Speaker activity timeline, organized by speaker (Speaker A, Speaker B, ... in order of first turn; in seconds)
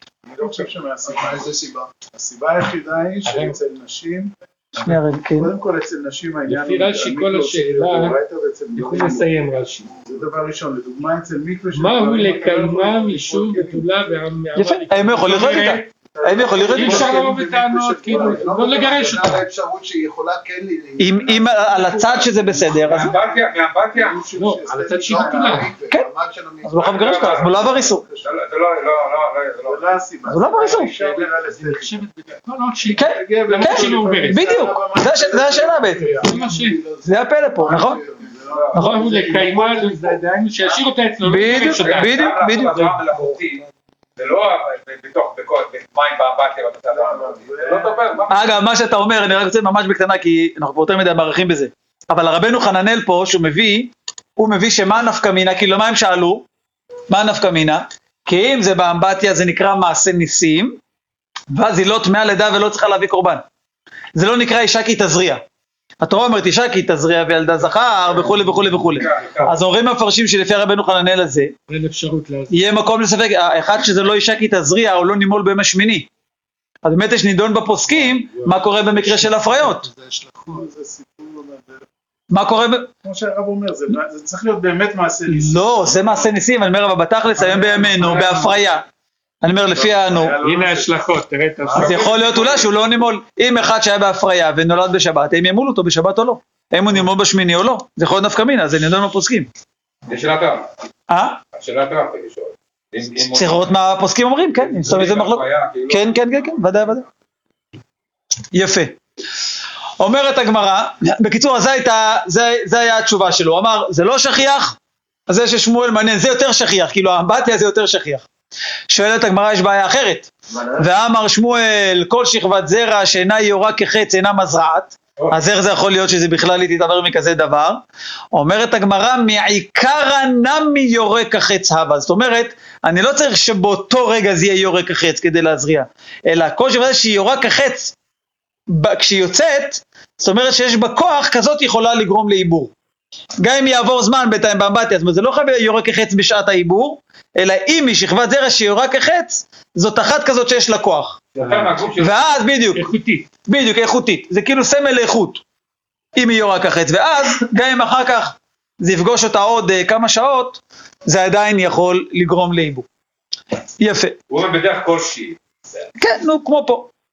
Speaker A: 0.3-1.5, 2.1-9.3, 10.0-13.9, 15.4-18.5, 22.0-23.0, 23.9-25.7, 27.6-28.3, 29.6-32.1, 32.9-36.7, 37.7-40.2, 46.9-47.9, 78.7-81.8, 83.0-86.3, 87.3-88.7, 89.7-90.9, 91.6-91.9
Speaker B: 1.0-1.9, 18.0-22.0, 25.1-27.1, 36.2-38.3, 120.5-120.9
Speaker C: 3.2-3.6, 6.5-8.2, 8.7-9.9, 11.7-15.9, 16.7-19.4, 24.3-25.8, 30.7-34.6, 36.2-36.8, 38.7-43.4, 71.7-72.6, 78.0-78.7, 88.0-88.5, 90.4-92.3, 151.3-151.8, 152.7-153.3
Speaker D: 4.8-5.5, 14.5-17.2, 21.0-23.1, 26.6-28.0, 30.3-30.9, 33.0-36.1, 37.0-38.0, 38.7-39.0, 41.2-42.8, 48.3-56.5, 57.1-60.8, 61.5-63.4, 64.1-65.4, 66.0-71.5, 72.5-76.1, 76.8-79.9, 82.3-82.9, 85.3-88.8, 89.4-90.3, 91.8-99.5, 101.1-101.4, 103.3-107.0, 108.5-109.0, 110.0-114.8, 115.3-118.2, 118.9-127.8, 128.3-137.9, 138.7-142.7, 143.4-151.2, 152.0-152.9, 153.4-155.4, 156.2-162.8, 163.8-164.2, 166.0-166.9
Speaker E: 22.9-24.2, 26.8-29.9, 38.5-38.8, 41.5-43.6, 44.2-48.5, 68.9-69.5, 91.8-92.7, 100.1-100.7, 101.5-103.8, 104.7-106.6, 151.4-152.2, 164.3-165.4